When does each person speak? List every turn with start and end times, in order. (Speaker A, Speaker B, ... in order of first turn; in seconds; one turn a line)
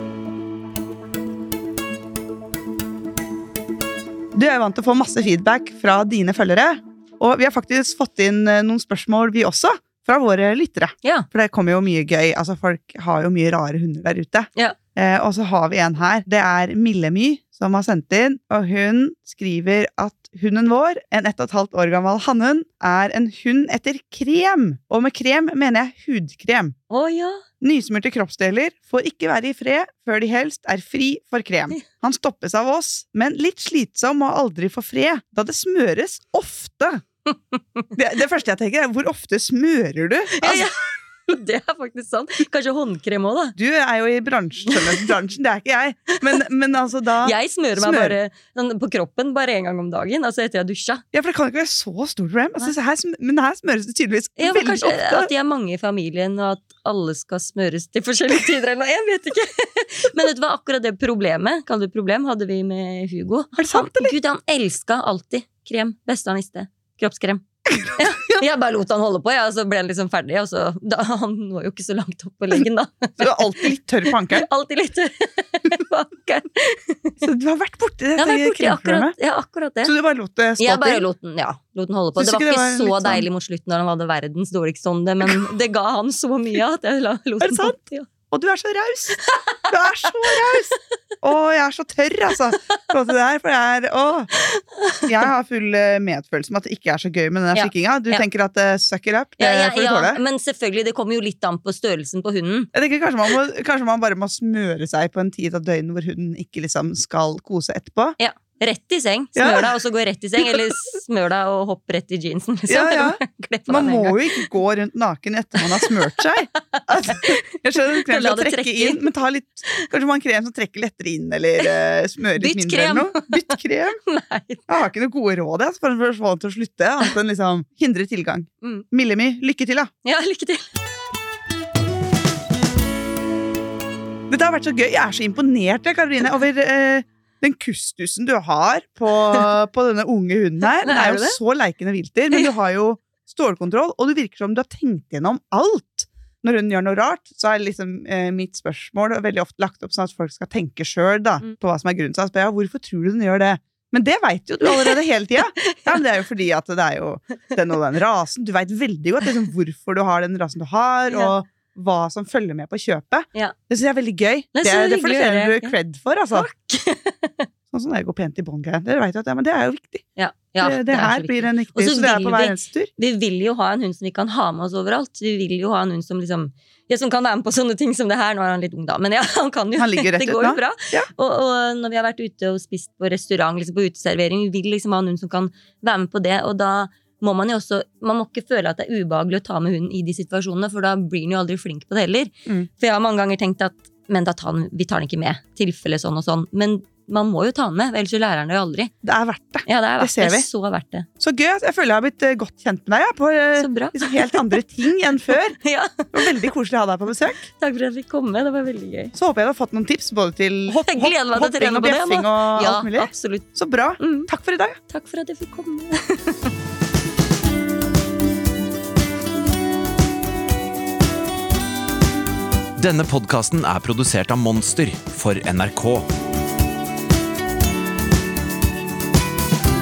Speaker A: 4.3-26.8
Speaker B: 26.9-27.4
Speaker A: 27.6-37.0
Speaker B: 37.3-37.9
Speaker A: 37.9-40.7
Speaker B: 40.4-43.5
Speaker A: 43.6-48.2
Speaker B: 47.2-51.0
Speaker A: 51.1-55.3
Speaker B: 54.4-73.7
Speaker A: 63.5-64.1
Speaker A: 67.7-68.4
Speaker A: 73.2-74.5
Speaker B: 74.3-77.2
Speaker A: 77.2-79.1
Speaker B: 78.2-79.9
Speaker A: 79.8-81.0
Speaker B: 80.6-88.1
Speaker A: 82.2-83.2
Speaker A: 87.4-87.8
Speaker A: 88.3-89.2
Speaker B: 89.2-90.7
Speaker A: 89.7-94.3
Speaker B: 94.4-95.1
Speaker A: 95.0-100.2
Speaker B: 97.5-98.2
Speaker B: 99.4-102.7
Speaker A: 102.7-108.2
Speaker B: 108.2-114.5
Speaker A: 109.3-109.7
Speaker A: 112.7-124.0
Speaker B: 116.5-119.0
Speaker B: 122.4-123.5
Speaker B: 124.0-124.7
Speaker A: 124.7-129.9
Speaker B: 130.0-130.8
Speaker A: 134.3-166.5
Speaker B: 140.8-141.4
Speaker B: 154.6-155.0
Speaker B: 155.5-156.0
Speaker B: 161.1-161.3
Speaker B: 164.5-165.7
Speaker B: 166.3-167.5
Speaker A: 167.7-170.1
Speaker B: 170.2-198.9
Speaker A: 170.6-172.9
Speaker A: 179.8-181.1
Speaker A: 199.0-200.5
Speaker B: 199.7-201.1
Speaker A: 201.2-205.6
Speaker B: 203.6-204.6
Speaker B: 205.6-206.5
Speaker A: 206.1-207.5
Speaker B: 207.5-209.1
Speaker A: 209.1-214.8
Speaker B: 210.7-214.3
Speaker B: 214.9-216.5
Speaker C: 222.8-226.1